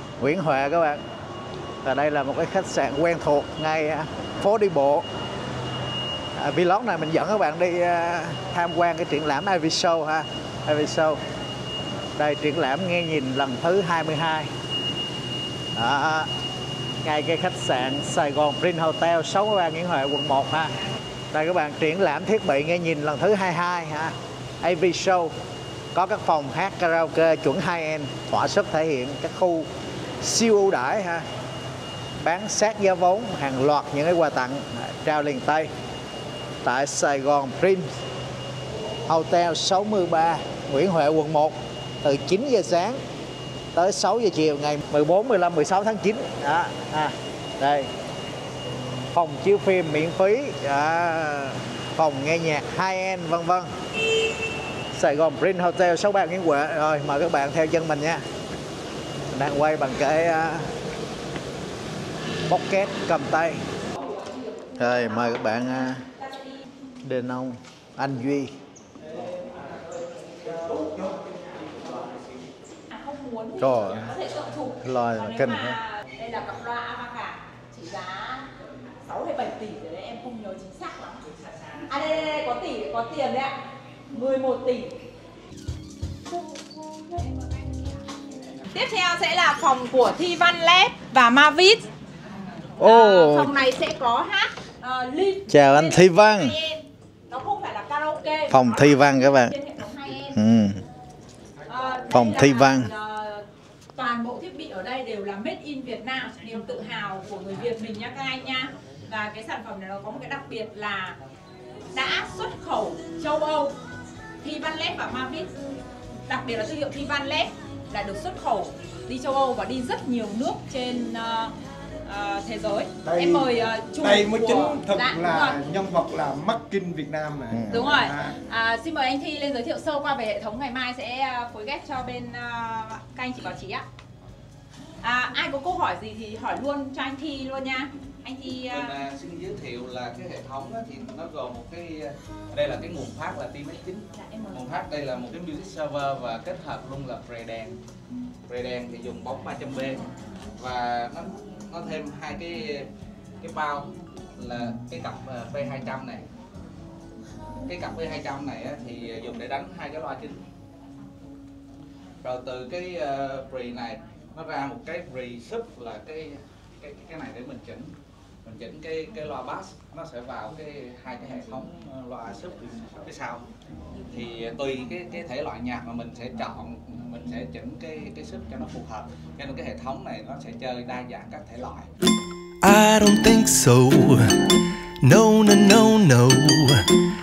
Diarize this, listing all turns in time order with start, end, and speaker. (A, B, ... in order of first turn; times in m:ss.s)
0:00.2-0:01.0 A
0:01.8-0:05.0 A
0:06.4-0:11.2 A
0:12.2-0:14.5 A
0:15.7-0:16.3 A
0:17.0-0:20.8 A
0:21.3-0:25.3 A
0:25.9-0:29.7 A
0:30.2-0:31.2 A
0:32.2-0:35.7 A
0:36.6-0:37.9 A
0:39.1-0:43.0 A
0:43.7-0:47.9 A
0:49.1-0:53.7 A
0:54.9-0:58.2 A
0:59.3-1:00.7 A
1:02.5-1:03.6 A
1:03.9-1:06.7 B
1:04.8-1:06.0 A
1:07.0-1:08.6 A
1:12.9-1:18.5 B
1:13.6-1:14.2 A
1:14.8-1:15.8 A
1:19.0-1:25.0 B
1:28.7-1:31.9 B
1:32.8-1:40.4 B
1:32.8-1:33.5 A
1:35.5-1:36.6 A
1:38.5-1:39.6 A
1:40.3-1:40.8 A
1:41.6-1:42.2 C
1:41.6-1:51.2 B
1:42.1-1:42.9 A
1:51.9-1:53.8 B
1:54.4-1:55.6 B
1:56.3-2:01.5 B
2:02.0-2:05.6 B
2:03.0-2:08.4 C
2:07.5-2:07.8 A
2:07.7-2:13.8 B
2:15.0-2:19.0 B
2:18.7-2:27.8 D
2:24.2-2:24.6 B
2:28.5-2:32.9 D
2:33.4-2:36.2 D
2:37.6-2:40.4 D
2:42.2-2:53.4 D
2:54.1-3:01.9 D
3:02.6-3:04.4 E
3:05.0-3:06.9 E